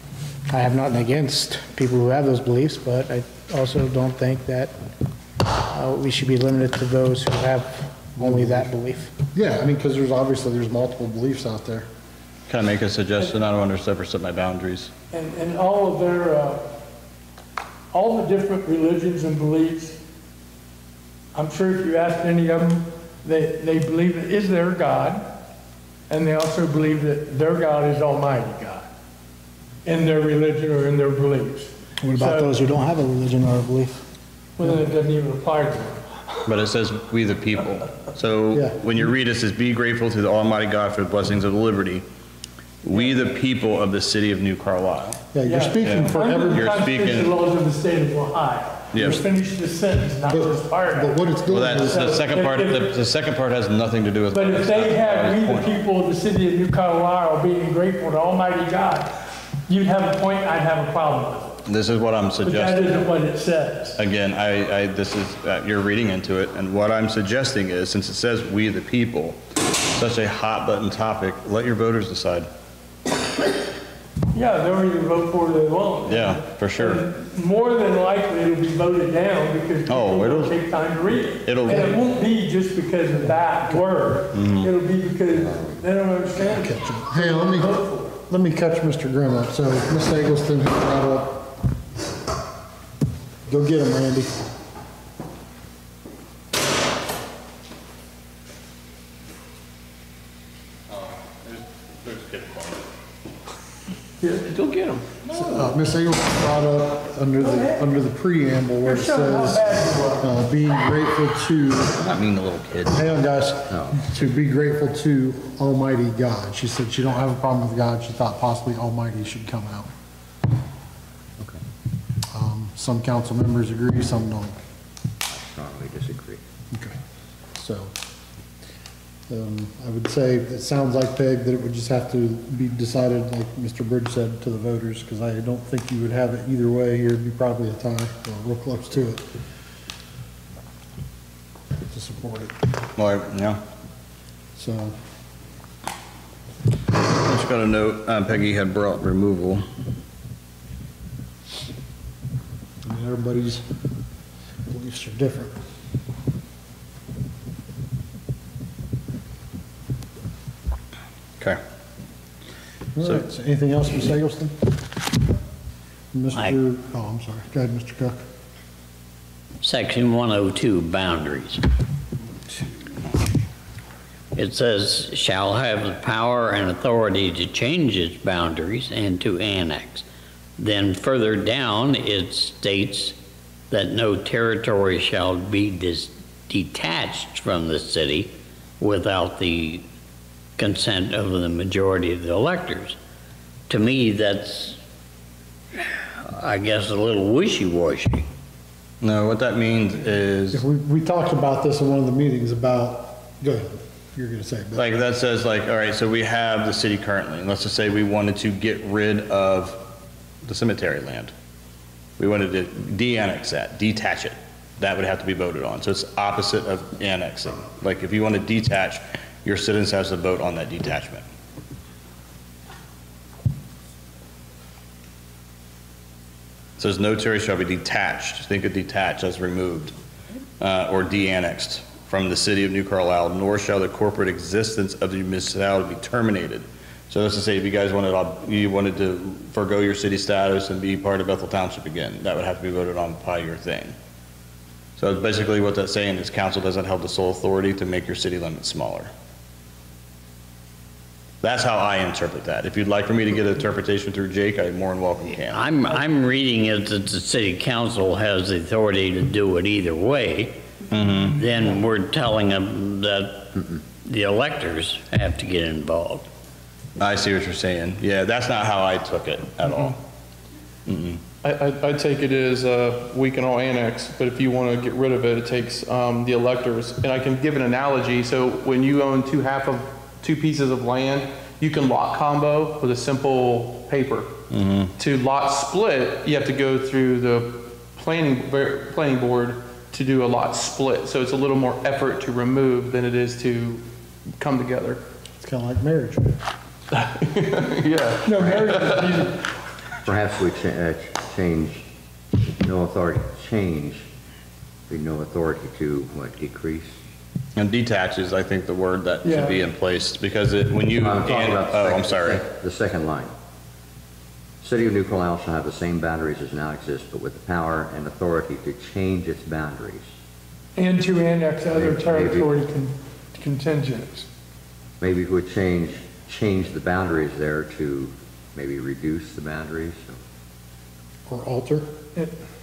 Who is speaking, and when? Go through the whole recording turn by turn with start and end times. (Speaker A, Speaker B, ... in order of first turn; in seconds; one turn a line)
Speaker A: 0.5-4.7
Speaker A: 5.5-9.1
Speaker B: 8.2-8.7
Speaker B: 9.3-11.9
Speaker C: 12.5-14.9
Speaker D: 15.1-16.7
Speaker D: 17.9-20.0
Speaker D: 21.3-25.3
Speaker D: 26.1-28.9
Speaker D: 29.8-32.6
Speaker A: 32.0-34.0
Speaker D: 34.6-36.5
Speaker C: 36.5-42.0
Speaker B: 38.5-38.9
Speaker C: 42.8-45.2
Speaker B: 45.3-46.7
Speaker D: 45.4-52.9
Speaker C: 45.8-47.4
Speaker C: 48.9-49.2
Speaker B: 50.3-52.0
Speaker C: 51.5-55.7
Speaker D: 54.3-59.1
Speaker D: 59.7-61.6
Speaker C: 61.7-63.0
Speaker D: 62.4-64.0
Speaker C: 64.0-72.5
Speaker D: 74.3-88.1
Speaker C: 76.0-77.0
Speaker C: 79.9-80.5
Speaker C: 81.4-82.0
Speaker B: 83.5-83.8
Speaker C: 84.3-84.7
Speaker B: 86.4-87.7
Speaker B: 88.3-91.5
Speaker B: 93.5-94.3
Speaker C: 100.9-102.9
Speaker E: 104.4-105.2
Speaker B: 105.3-112.0
Speaker D: 107.4-107.9
Speaker D: 108.8-110.3
Speaker C: 112.0-113.0
Speaker B: 112.9-119.9
Speaker F: 113.7-114.0
Speaker B: 122.3-124.6
Speaker F: 125.3-126.4
Speaker B: 126.7-127.0
Speaker B: 127.5-127.9
Speaker B: 129.3-139.2
Speaker B: 141.9-142.6
Speaker C: 143.0-143.6
Speaker B: 144.6-145.0
Speaker C: 147.1-149.7
Speaker B: 152.8-153.7
Speaker B: 154.7-155.6
Speaker B: 162.9-164.7
Speaker B: 166.1-168.2
Speaker G: 169.6-171.7
Speaker G: 174.3-180.1
Speaker G: 180.6-183.1
Speaker G: 183.7-189.8
Speaker G: 190.6-193.0
Speaker G: 193.7-194.8
Speaker G: 195.7-198.3
Speaker C: 199.0-200.6
Speaker B: 200.5-204.8
Speaker C: 204.8-209.8
Speaker C: 210.4-211.3
Speaker C: 212.2-221.2
Speaker C: 226.8-229.9
Speaker C: 230.6-243.9
Speaker C: 245.0-249.1
Speaker C: 251.4-255.7
Speaker G: 255.5-260.6
Speaker C: 260.9-261.4
Speaker G: 261.3-266.3
Speaker C: 267.0-270.0
Speaker E: 269.6-269.9
Speaker C: 270.9-271.2
Speaker E: 271.4-284.3
Speaker C: 284.5-284.9
Speaker E: 285.0-293.8
Speaker E: 294.4-295.0
Speaker B: 295.4-296.4
Speaker E: 296.9-299.1
Speaker D: 298.2-299.4
Speaker F: 300.1-301.9
Speaker F: 302.6-304.1
Speaker F: 304.9-306.9
Speaker C: 307.6-312.4
Speaker D: 309.2-309.6
Speaker F: 310.9-313.3
Speaker F: 314.6-320.1
Speaker D: 320.8-324.3
Speaker F: 321.7-322.5
Speaker F: 325.0-330.2
Speaker B: 331.3-331.9